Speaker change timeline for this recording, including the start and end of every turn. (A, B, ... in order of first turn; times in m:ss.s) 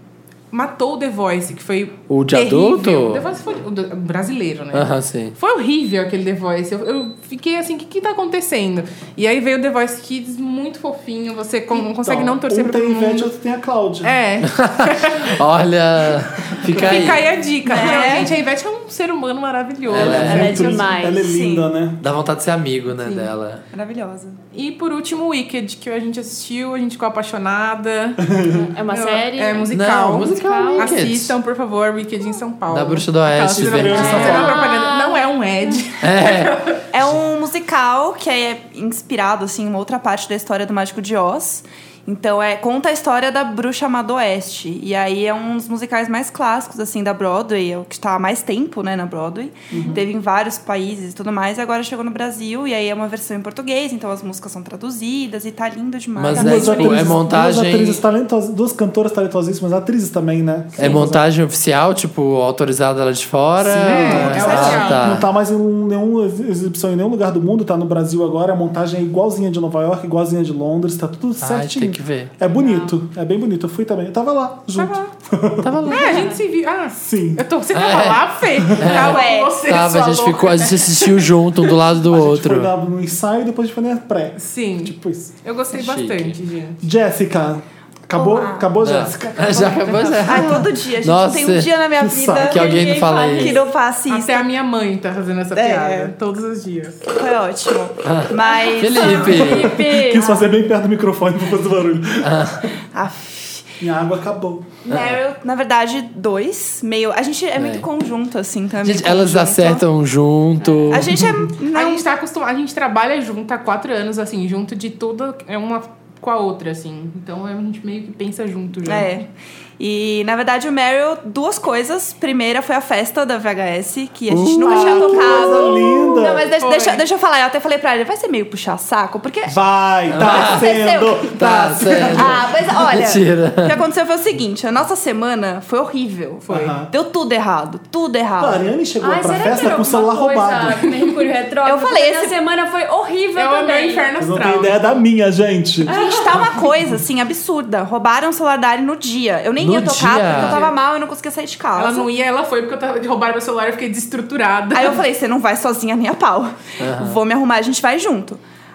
0:00.5-0:13.3 A
0:02.1-0:03.2 B
0:04.7-0:05.4 B
0:12.0-0:14.2 C
0:14.0-0:15.4 A
0:14.4-0:17.2 B
0:16.6-0:17.2 C
0:16.7-0:20.8 A
0:17.7-0:18.4 D
0:19.9-0:20.7 B
0:19.9-0:22.0 C
0:20.1-0:21.2 E
0:21.1-0:21.7 D
0:22.0-0:23.6 B
0:23.7-0:24.4 D
0:24.5-0:28.3 A
0:28.2-0:28.7 C
0:28.5-0:31.0 E
0:28.9-0:36.8 A
0:29.7-0:31.4 B
0:32.7-0:34.5 B
0:33.5-0:34.6 C
0:33.9-0:35.3 E
0:36.0-0:36.6 B
0:36.9-0:57.1 D
0:49.7-0:50.0 C
0:56.2-0:58.0 B
0:56.3-1:01.3 C
1:00.8-1:05.3 B
1:03.6-1:16.0 C
1:03.8-1:05.2 A
1:04.2-1:05.0 D
1:11.4-1:12.3 B
1:12.6-1:12.9 E
1:14.8-1:15.1 A
1:15.6-1:16.3 B
1:15.9-1:21.3 A
1:17.0-1:17.5 C
1:17.7-1:22.7 B
1:18.9-1:19.6 D
1:22.0-1:25.3 C
1:24.4-1:26.8 A
1:25.7-1:26.4 B
1:26.8-1:29.7 C
1:28.1-1:28.8 D
1:28.8-1:31.7 B
1:29.3-1:34.6 D
1:32.0-1:32.6 C
1:32.3-1:33.6 B
1:32.5-1:33.6 E
1:34.1-1:37.0 A
1:35.6-1:36.1 D
1:37.1-1:40.4 D
1:38.0-1:39.8 B
1:38.5-1:40.3 E
1:39.4-1:42.7 C
1:42.2-1:42.7 B
1:42.9-1:43.7 D
1:43.8-1:44.7 C
1:44.9-1:49.8 D
1:47.6-1:47.8 B
1:48.8-1:51.2 B
1:50.9-1:52.1 D
1:51.7-1:59.1 A
1:58.8-2:09.6 D
2:04.3-2:05.5 B
2:04.6-2:06.5 C
2:06.6-2:07.0 A
2:09.5-2:12.5 C
2:10.1-2:10.7 B
2:10.1-2:11.3 D
2:11.2-2:13.8 B
2:11.9-2:18.6 D
2:16.5-2:16.8 A
2:16.5-2:16.9 C
2:18.4-2:20.8 C
2:19.0-2:24.1 E
2:20.8-2:21.3 A
2:21.6-2:22.4 D
2:23.4-2:25.0 A
2:24.2-2:26.0 C
2:25.8-2:32.1 D
2:25.9-2:26.4 E
2:29.6-2:30.6 B
2:30.2-2:30.8 A
2:31.8-2:35.0 A
2:34.7-2:38.4 D
2:36.8-2:37.2 B